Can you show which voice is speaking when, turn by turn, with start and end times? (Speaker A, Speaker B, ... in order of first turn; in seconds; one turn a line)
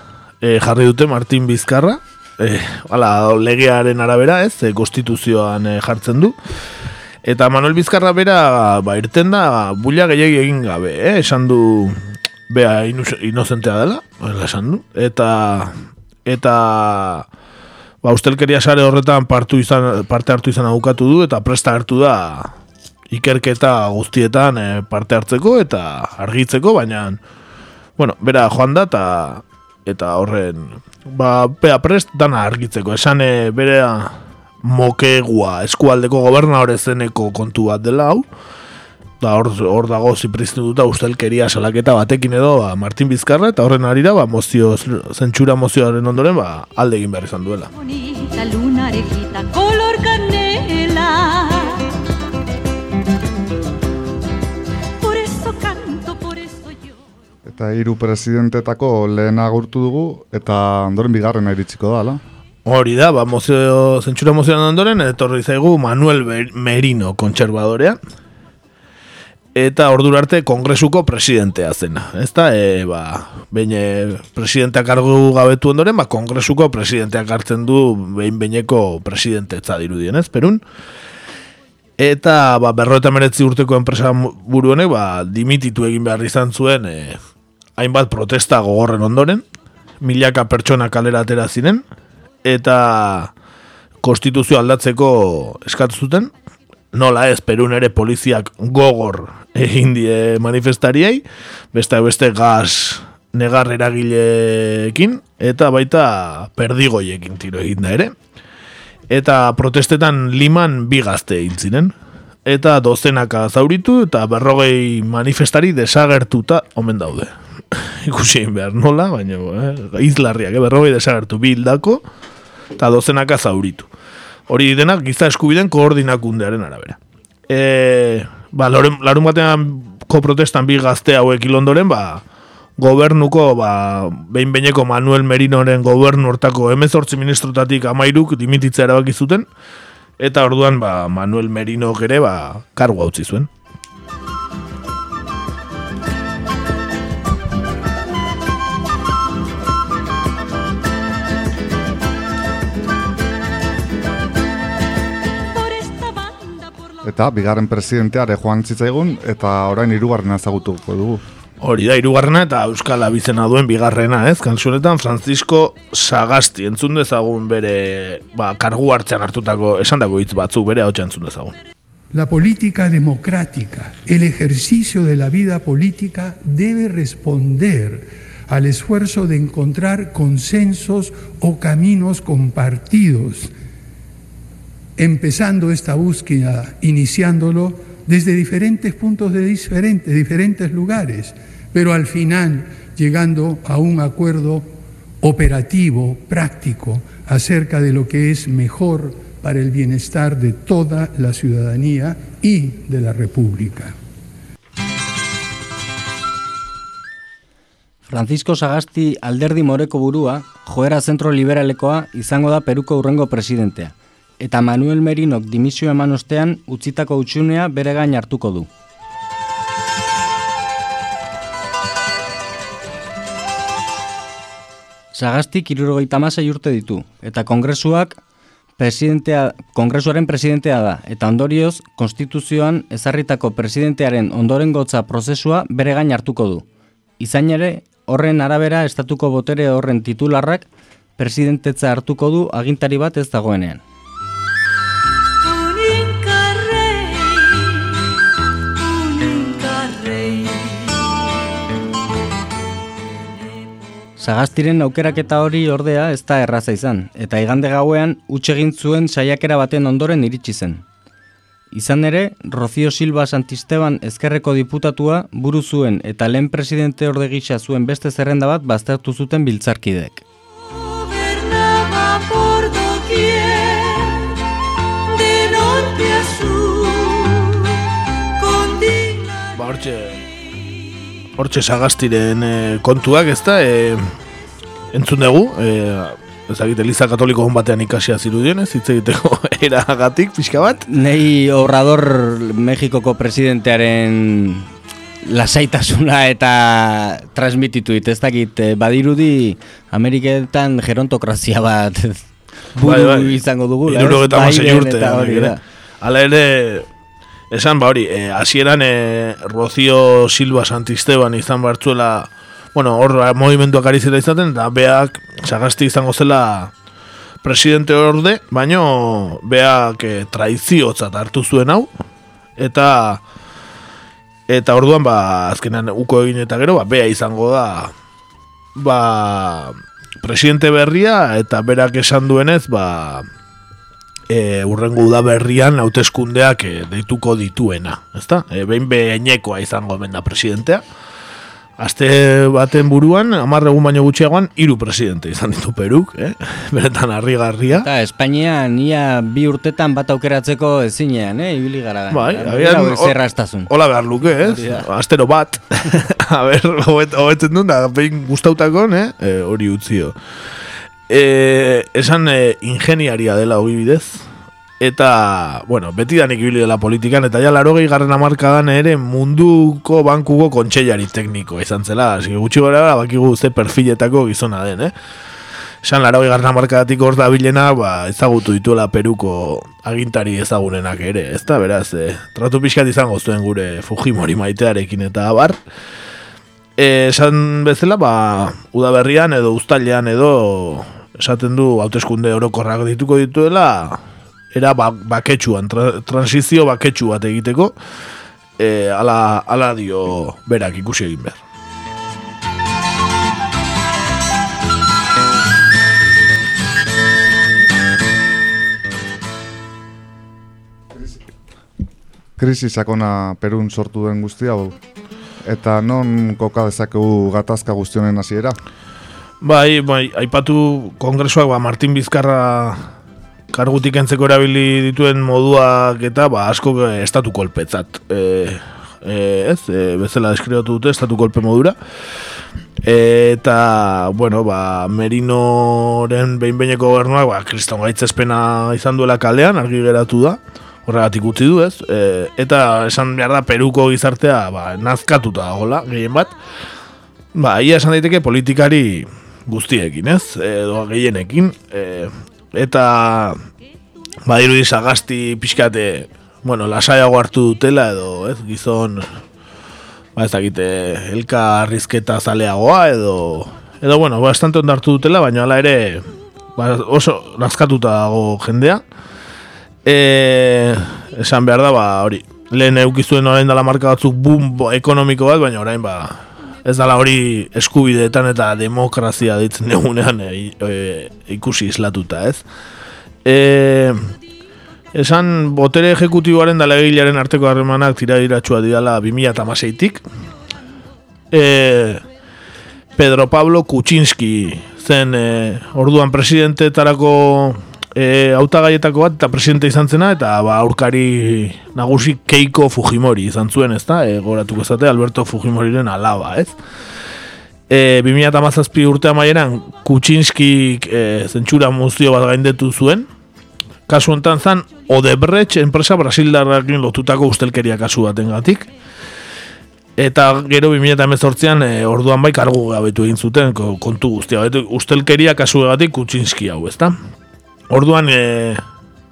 Speaker A: 0.4-6.3
Speaker A: 7.2-12.0
Speaker A: 12.5-15.7
Speaker A: 16.2-17.3
Speaker A: 18.0-22.5
Speaker A: 23.1-27.2
Speaker A: 28.0-38.2
Speaker A: 39.2-47.7
Speaker B: 47.7-51.8
Speaker B: 55.0-56.9
Speaker C: 57.5-62.2
Speaker A: 62.6-68.0
Speaker A: 69.5-80.6
Speaker A: 82.0-87.2
Speaker A: 87.8-89.4
Speaker A: 90.0-91.8
Speaker A: 92.4-93.3
Speaker A: 94.0-96.3
Speaker A: 96.9-108.1
Speaker A: 109.1-111.9
Speaker A: 112.5-122.0
Speaker A: 122.8-123.9
Speaker A: 124.5-127.0
Speaker A: 127.5-132.2
Speaker A: 132.8-139.4
Speaker A: 140.2-143.5
Speaker B: 155.5-156.8
Speaker C: 157.0-161.2
Speaker A: 161.6-171.5
Speaker D: 172.1-183.5
Speaker D: 185.0-194.7
Speaker D: 195.2-204.0
Speaker E: 208.1-218.7
Speaker E: 225.1-228.2
Speaker E: 228.8-236.6
Speaker E: 237.2-243.8
Speaker B: 245.4-248.0
Speaker B: 248.8-251.4
Speaker E: 254.2-260.8
Speaker E: 261.7-270.2
Speaker B: 270.7-274.3
Speaker B: 275.1-277.8
Speaker B: 278.4-279.5
Speaker A: 279.5-280.2
Speaker A: 281.4-284.1
Speaker A: 284.9-290.8
Speaker E: 290.9-294.7
Speaker E: 295.2-305.6
Speaker A: 302.8-306.9
Speaker A: 307.5-316.7
Speaker A: 317.4-321.9
Speaker A: 322.6-323.2
Speaker A: 324.5-327.9
Speaker A: 328.8-333.2
Speaker A: 334.3-340.8
Speaker A: 341.8-347.9
Speaker E: 347.8-353.7
Speaker A: 352.1-353.1
Speaker A: 353.7-360.1
Speaker E: 354.4-354.8
Speaker A: 361.1-364.2
Speaker A: 364.8-374.9
Speaker A: 375.8-385.6
Speaker A: 386.8-394.0
Speaker A: 394.5-397.7
Speaker A: 398.6-401.4
Speaker C: 412.4-414.8
Speaker C: 415.4-418.6
Speaker A: 419.4-422.9
Speaker A: 423.5-431.8
Speaker A: 432.8-446.3
Speaker A: 447.3-453.4
Speaker A: 454.2-459.1
Speaker A: 460.1-466.0
Speaker A: 466.6-468.8
Speaker A: 469.8-482.4
Speaker A: 483.2-484.1
Speaker A: 484.9-490.0
Speaker A: 491.3-492.0
Speaker A: 492.9-506.5
Speaker A: 507.7-513.1
Speaker A: 513.9-518.7
Speaker A: 520.0-526.9
Speaker A: 527.7-528.6